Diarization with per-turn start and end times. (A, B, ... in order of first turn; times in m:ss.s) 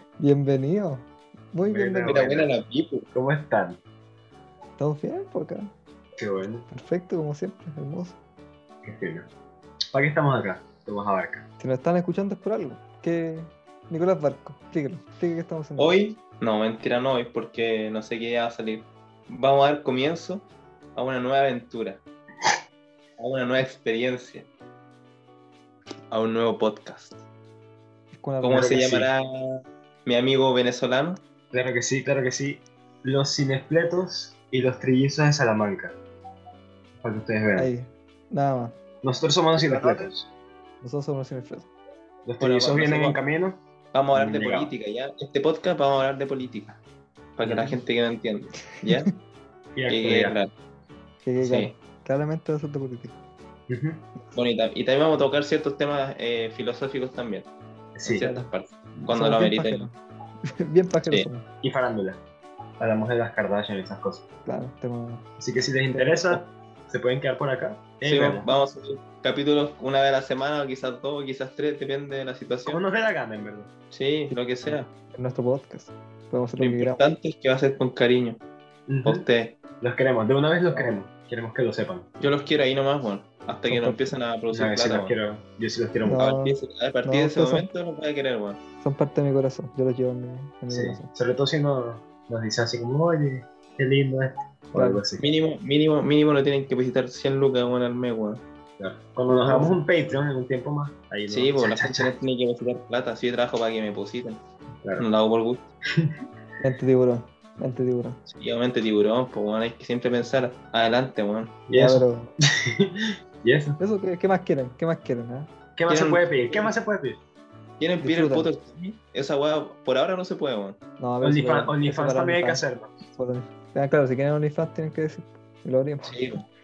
0:00.2-0:02.2 A
0:01.6-0:02.5 B
0:02.0-0:03.1 C
0:03.1-0:03.8 B
0:04.8-0:05.7 A
0:06.2-0:06.7 B
0:06.7-0:08.2 A
0:08.8-0:09.3 B
0:09.9-0:11.4 B
0:11.6-0:16.0 A
0:15.8-0:22.0 C
0:23.2-0:24.5 C
0:26.1-0:27.2 C
0:28.1-0:28.8 A
0:28.4-0:31.2 C
0:28.5-0:29.1 B
0:31.5-0:36.0 B
0:37.0-0:37.7 B
0:37.6-0:38.8 A
0:39.0-0:40.3 B
0:39.6-0:40.1 C
0:40.8-0:41.7 A
0:42.2-0:43.6 B
0:42.4-0:43.2 C
0:43.9-0:46.8 C
0:44.1-0:44.7 B
0:47.4-0:49.1 C
0:47.4-0:47.8 B
0:49.8-0:50.4 B
0:49.9-0:50.5 C
0:51.2-0:53.2 A
0:51.4-0:51.7 C
0:53.7-0:54.0 B
0:54.3-0:57.5 C
0:57.9-0:58.2 B
0:58.0-0:59.9 C
0:58.2-0:58.5 A
0:59.1-1:00.0 A
1:00.6-1:01.4 A
1:01.6-1:02.2 B
1:02.8-1:04.2 B
1:04.4-1:05.2 A
1:05.4-1:08.5 B
1:05.9-1:06.4 A
1:08.0-1:12.8 C
1:12.6-1:13.7 B
1:13.9-1:14.9 C
1:15.1-1:17.0 A
1:16.6-1:18.4 C
1:18.9-1:19.2 B
1:19.0-1:19.6 C
1:19.8-1:22.1 B
1:20.7-1:21.0 C
1:22.2-1:25.2 C
1:23.6-1:24.2 A
1:24.5-1:26.2 B
1:26.0-1:27.7 A
1:26.1-1:28.6 C
1:28.8-1:31.1 A
1:30.7-1:35.2 B
1:34.7-1:35.0 A
1:35.2-1:38.4 C
1:38.8-1:42.2 B
1:39.3-1:39.8 A
1:41.3-1:44.4 C
1:45.0-1:45.6 C
1:46.6-1:48.2 A
1:48.3-1:51.6 C
1:51.7-1:52.1 B
1:51.7-1:52.3 A
1:52.6-1:52.9 B
1:53.4-1:53.8 B
1:53.8-1:55.5 A
1:55.8-1:57.2 B
1:55.9-1:56.7 C
1:57.8-2:00.8 C
1:58.0-1:58.5 A
2:01.0-2:06.3 A
2:01.2-2:02.9 B
2:06.0-2:06.4 C